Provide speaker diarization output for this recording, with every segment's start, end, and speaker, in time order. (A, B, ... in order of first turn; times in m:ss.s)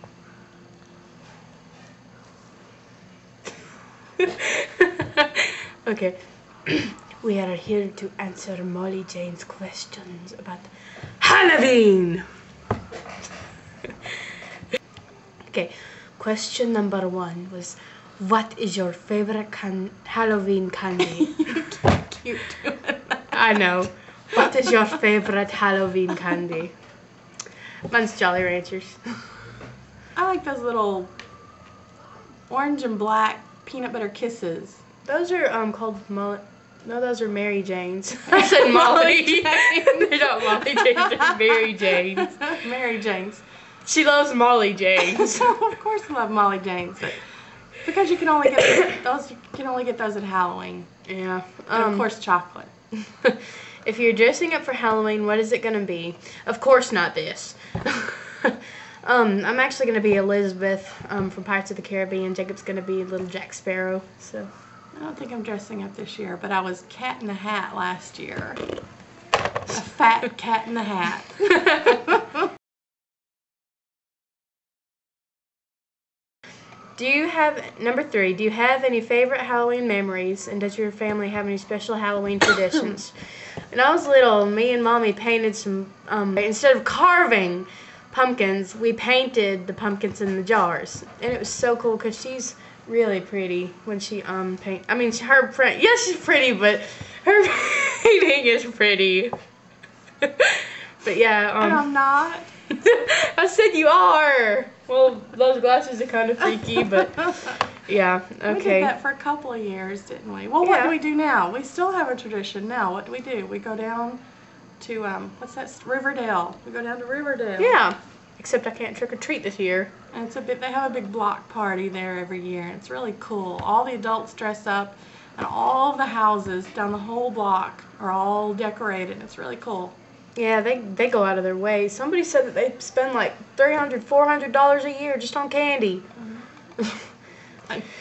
0:04.2-0:12.2 A
0:15.5-0:21.4 A
0:21.2-0:23.2 B
0:23.3-0:26.7 A
0:27.9-0:29.1 A
0:30.2-0:31.1 B
0:32.5-0:34.8 B
0:35.0-0:42.5 A
0:38.3-0:43.4 B
0:43.8-0:45.5 A
0:45.1-0:47.2 B
0:47.8-0:50.9 B
0:51.0-0:52.1 A
0:51.7-0:52.7 B
0:53.1-1:04.5 A
1:04.9-1:08.6 B
1:09.7-1:12.2 B
1:17.0-1:23.1 A
1:23.7-1:39.3 A
1:40.2-1:41.8 A
1:41.6-1:42.5 B
1:42.7-1:48.9 A
1:48.5-1:54.2 B
1:50.6-1:50.9 A
1:54.8-1:57.8 B
1:57.6-1:59.9 A
2:00.1-2:09.9 B
2:10.4-2:16.1 A
2:16.8-2:17.1 A